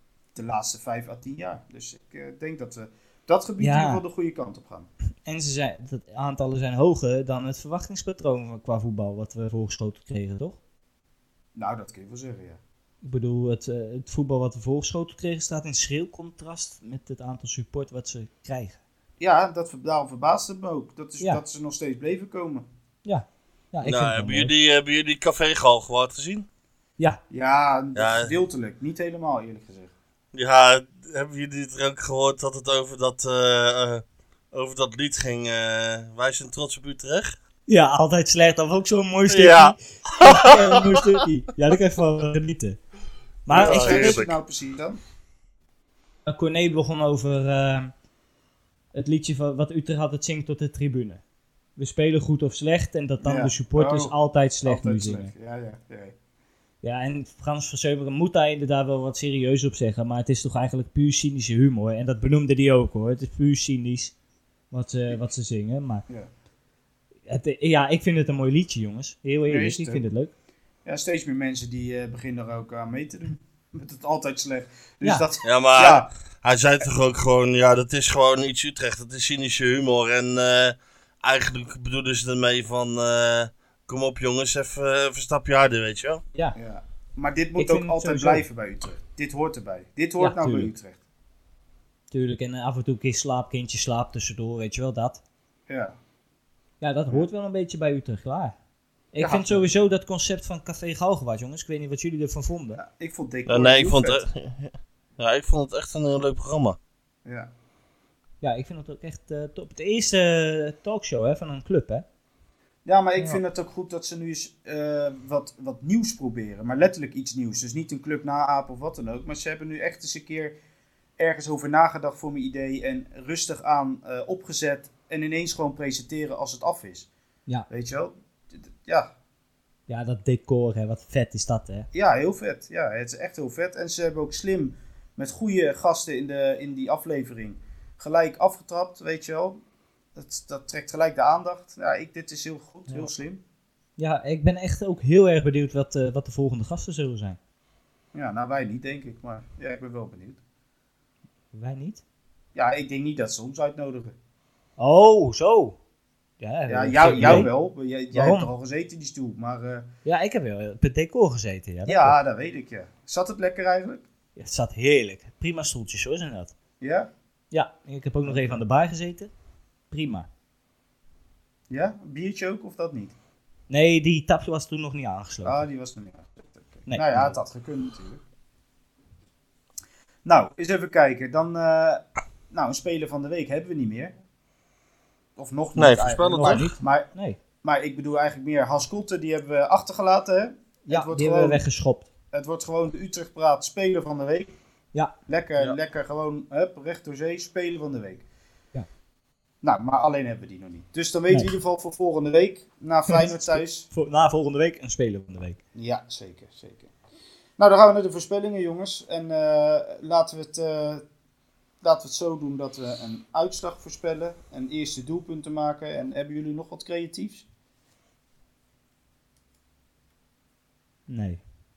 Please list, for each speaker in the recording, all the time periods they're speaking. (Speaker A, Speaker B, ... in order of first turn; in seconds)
Speaker A: 0.3-4.9, 11.6-12.6, 19.2-22.7, 27.3-29.9, 43.5-45.0, 53.2-56.1, 69.5-70.0, 70.8-76.1, 86.5-91.0, 95.7-96.0, 99.2-99.7, 102.8-104.2, 107.2-107.5, 112.8-120.6, 121.2-127.1, 127.7-129.1, 131.9-139.6, 140.2-143.4, 148.1-150.4, 152.6-154.2, 156.7-159.9, 161.9-164.1, 166.8-167.1, 168.3-168.6, 171.7-173.2, 175.4-178.2, 180.2-184.1, 185.4-187.1, 187.6-191.6, 192.3-194.5, 195.3-198.2, 199.6-203.9, 205.8-206.9, 207.6-211.0, 211.8-217.5
Speaker B: 3.6-4.0, 5.2-10.6, 13.0-18.8, 23.1-24.5, 37.7-42.8, 43.5-44.2, 46.3-47.9, 48.9-51.2, 51.8-55.3, 56.8-64.1, 64.7-66.0, 67.3-70.3, 75.0-75.3, 87.6-88.4, 90.2-90.7, 92.1-95.2, 96.8-98.5, 99.1-102.8, 108.4-112.0, 129.9-131.9, 144.0-147.4, 151.5-152.0, 154.8-155.8, 156.4-157.5, 158.1-158.5, 160.1-162.2, 164.4-166.5, 167.5-169.3, 169.9-170.3, 173.7-175.6, 176.9-177.4, 186.4-187.4, 190.9-192.1, 203.1-205.6, 221.1-221.4
Speaker C: 23.8-26.5, 28.0-28.3, 30.3-37.4, 39.3-41.0, 43.5-44.3, 75.4-86.2, 103.5-106.8, 185.8-186.7